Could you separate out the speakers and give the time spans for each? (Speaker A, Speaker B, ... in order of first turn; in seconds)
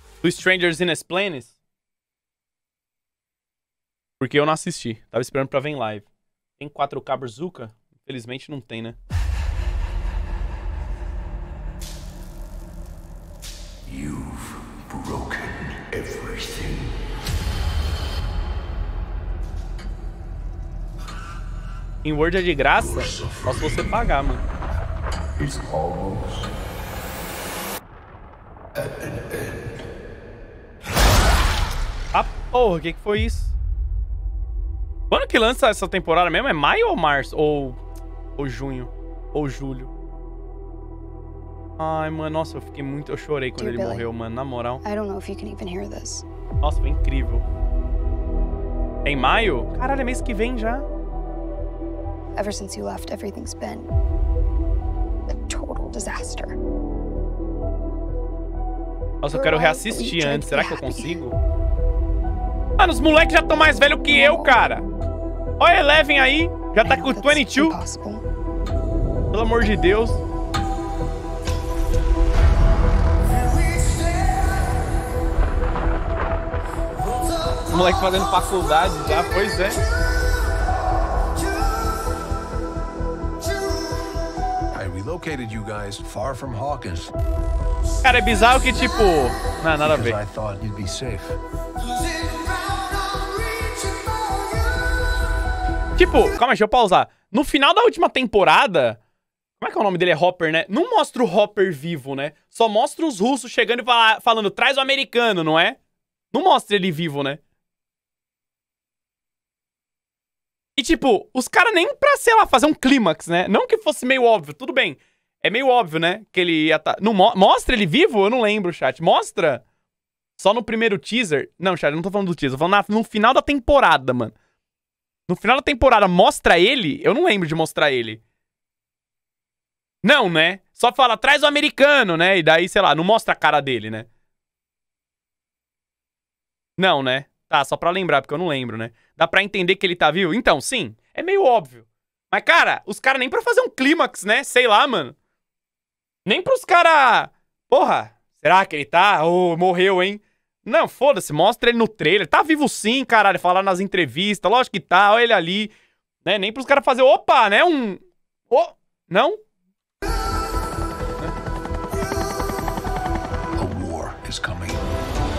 Speaker A: 0.2-1.5, 4.2-6.0, 6.6-9.0, 22.0-24.4, 32.1-33.5, 35.1-37.8, 38.4-39.9, 41.8-44.8, 46.6-47.4, 49.0-50.8, 59.2-61.4, 62.8-64.8, 65.6-67.8, 69.3-70.2, 77.7-79.8, 88.0-90.2, 96.0-99.0, 99.6-105.8, 106.3-107.4, 110.8-119.6, 120.4-124.3, 125.3-128.2, 130.0-134.1, 136.8-145.2, 146.2-155.7, 156.2-159.4
Speaker B: 13.9-16.9, 22.8-24.0, 25.4-26.5, 28.8-29.7, 84.7-87.1, 89.8-91.4, 163.6-164.8
Speaker C: 43.6-44.1, 44.8-46.2, 52.4-53.9, 55.4-56.5, 59.3-61.1, 64.1-64.4, 66.8-68.2